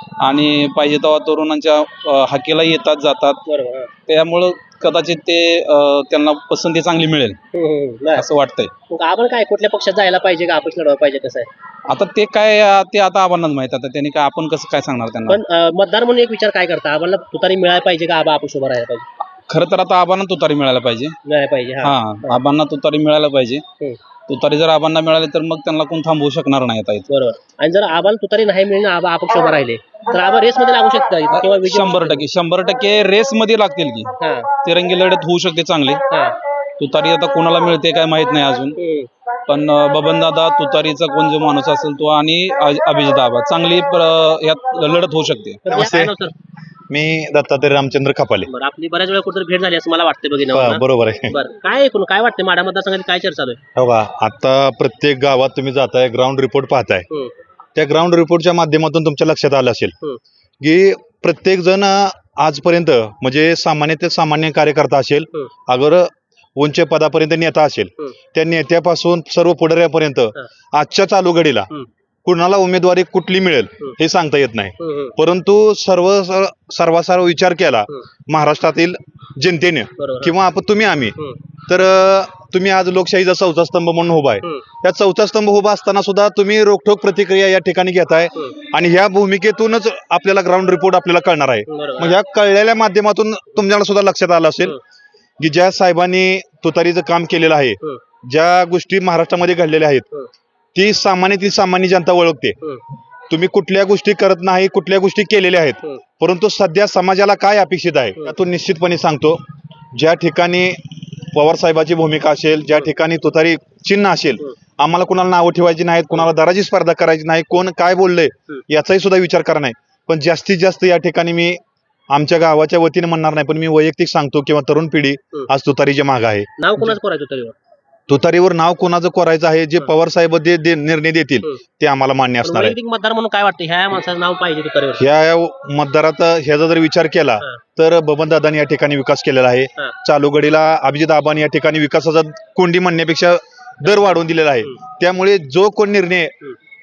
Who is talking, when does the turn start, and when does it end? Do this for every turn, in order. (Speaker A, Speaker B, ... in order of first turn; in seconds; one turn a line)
Speaker A: 0.2-3.4
Speaker B: 3.5-3.9
Speaker A: 4.1-7.4
Speaker B: 7.5-8.2
Speaker A: 8.2-8.7
Speaker B: 8.9-11.5
Speaker A: 11.9-15.4
Speaker B: 15.3-19.1
Speaker A: 19.5-21.1
Speaker B: 21.2-22.4
Speaker A: 21.8-23.6
Speaker A: 24.3-27.1
Speaker B: 27.1-32.2
Speaker A: 31.3-34.1
Speaker B: 34.2-34.5
Speaker A: 34.6-36.0
Speaker B: 36.1-36.4
Speaker A: 36.8-38.8
Speaker B: 38.8-39.1
Speaker A: 39.5-45.6
Speaker B: 45.6-46.3
Speaker C: 45.7-46.1
Speaker C: 46.9-48.5
Speaker B: 48.5-53.6
Speaker C: 50.5-51.4
Speaker C: 53.8-57.0
Speaker C: 57.8-59.9
Speaker C: 60.6-71.7
Speaker C: 72.2-81.1
Speaker B: 74.8-75.1
Speaker B: 80.0-80.3
Speaker C: 81.7-94.8
Speaker B: 91.7-92.2
Speaker C: 95.4-100.0
Speaker C: 100.7-102.6
Speaker C: 103.3-109.4
Speaker C: 109.9-121.6
Speaker C: 122.1-126.9
Speaker B: 126.6-127.5
Speaker C: 128.1-132.7
Speaker B: 132.4-135.0
Speaker C: 135.0-146.3
Speaker B: 143.8-144.7